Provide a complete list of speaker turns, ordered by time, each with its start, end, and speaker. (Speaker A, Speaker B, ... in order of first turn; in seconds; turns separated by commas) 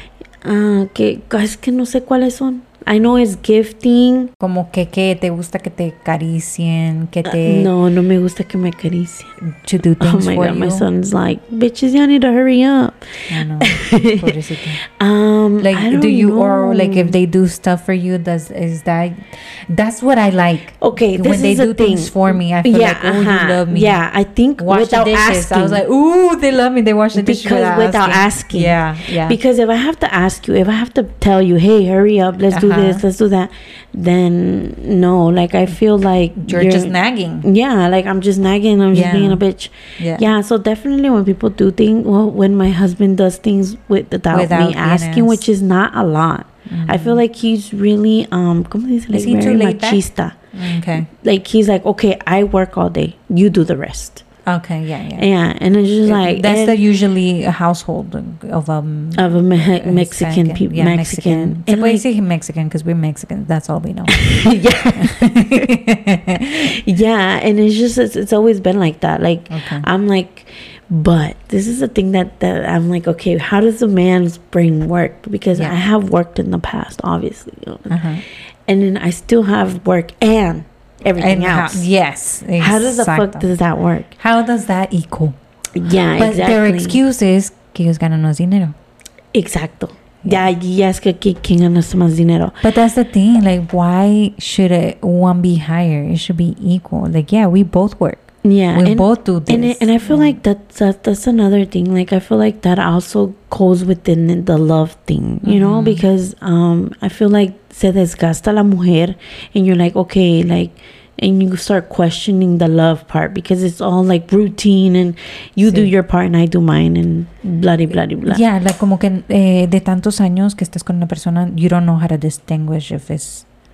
Speaker A: 0.4-4.3, Speaker B: 4.4-7.7, Speaker A: 7.2-9.3, Speaker B: 9.4-10.9, Speaker A: 10.0-17.1, Speaker B: 13.3-14.8, Speaker B: 15.6-24.0, Speaker A: 20.8-25.8, Speaker B: 24.6-29.4, Speaker A: 27.1-50.4, Speaker B: 32.5-33.0, Speaker B: 36.4-37.5, Speaker B: 38.9-39.4, Speaker B: 40.0-40.2, Speaker B: 44.3-45.4, Speaker B: 46.7-47.2, Speaker B: 49.1-51.1, Speaker A: 51.0-54.2, Speaker B: 54.5-55.3, Speaker A: 55.1-56.8, Speaker B: 56.0-66.7, Speaker A: 59.1-62.0, Speaker A: 64.3-65.7, Speaker A: 66.7-78.0, Speaker B: 69.5-69.9, Speaker B: 77.9-78.2, Speaker A: 78.7-81.9, Speaker B: 81.2-83.4, Speaker A: 82.6-84.1, Speaker B: 84.2-85.3, Speaker A: 85.7-87.0, Speaker B: 86.2-88.7, Speaker A: 89.3-92.6, Speaker B: 92.6-100.4, Speaker A: 98.4-118.4, Speaker B: 105.4-106.0, Speaker B: 115.7-115.9, Speaker B: 118.2-123.5